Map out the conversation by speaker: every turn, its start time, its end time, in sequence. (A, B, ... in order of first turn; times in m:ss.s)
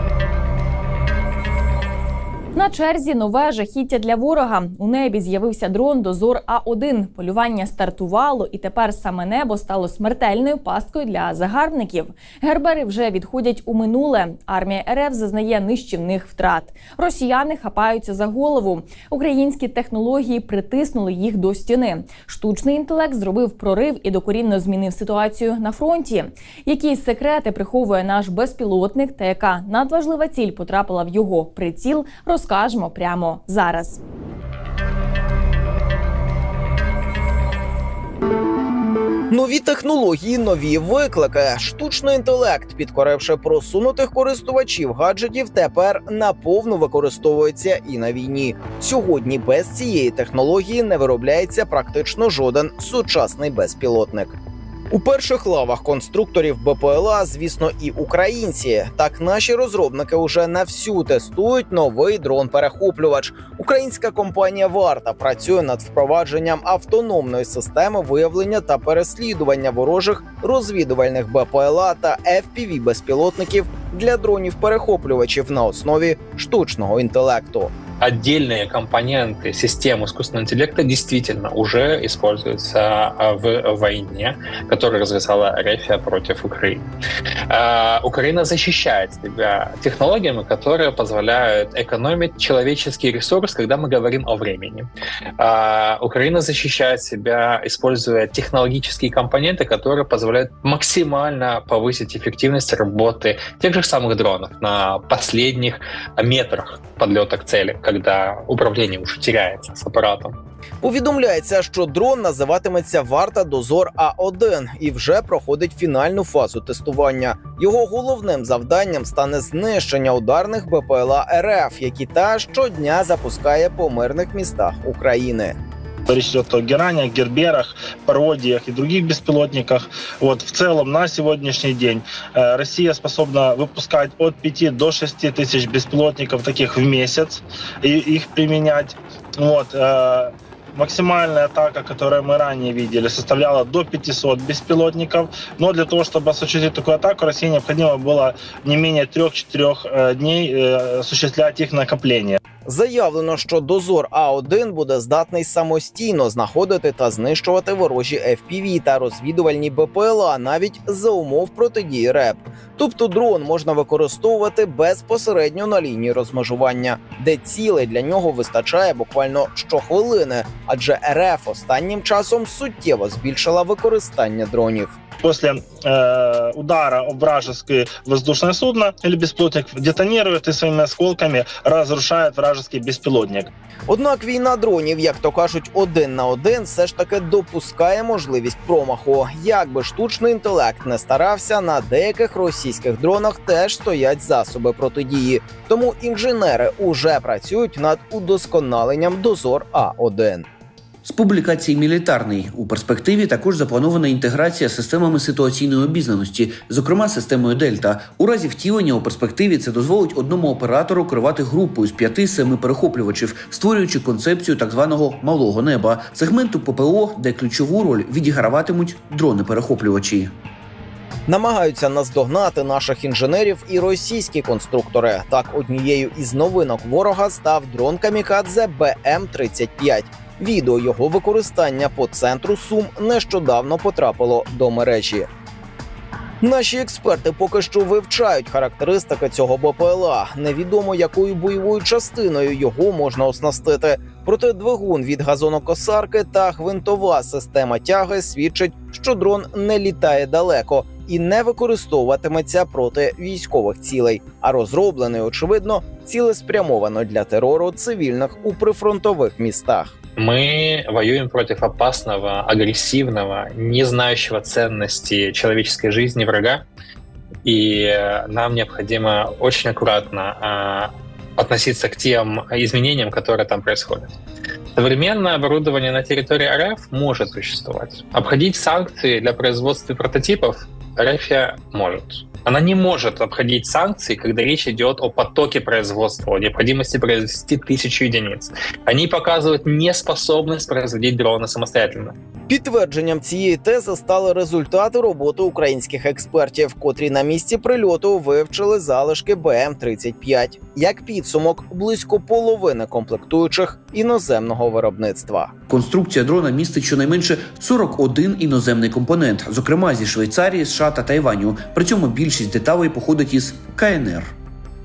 0:02.6-0:34.0 A
0:39.3-0:54.4 B
0:54.9-1:17.7 B
1:18.0-1:26.9 C
1:27.5-1:50.4 C
1:50.8-2:05.6 B
2:06.1-2:32.4 D
2:32.7-2:54.9 B
2:55.2-3:03.5 D
3:03.9-3:20.5 B
3:21.0-3:40.3 E
3:41.3-3:55.3 B
3:56.4-4:19.9 B
4:20.2-4:26.6 C
4:27.4-4:34.1 C
4:34.8-4:52.1 C
4:52.5-5:05.5 B
5:05.7-5:14.3 E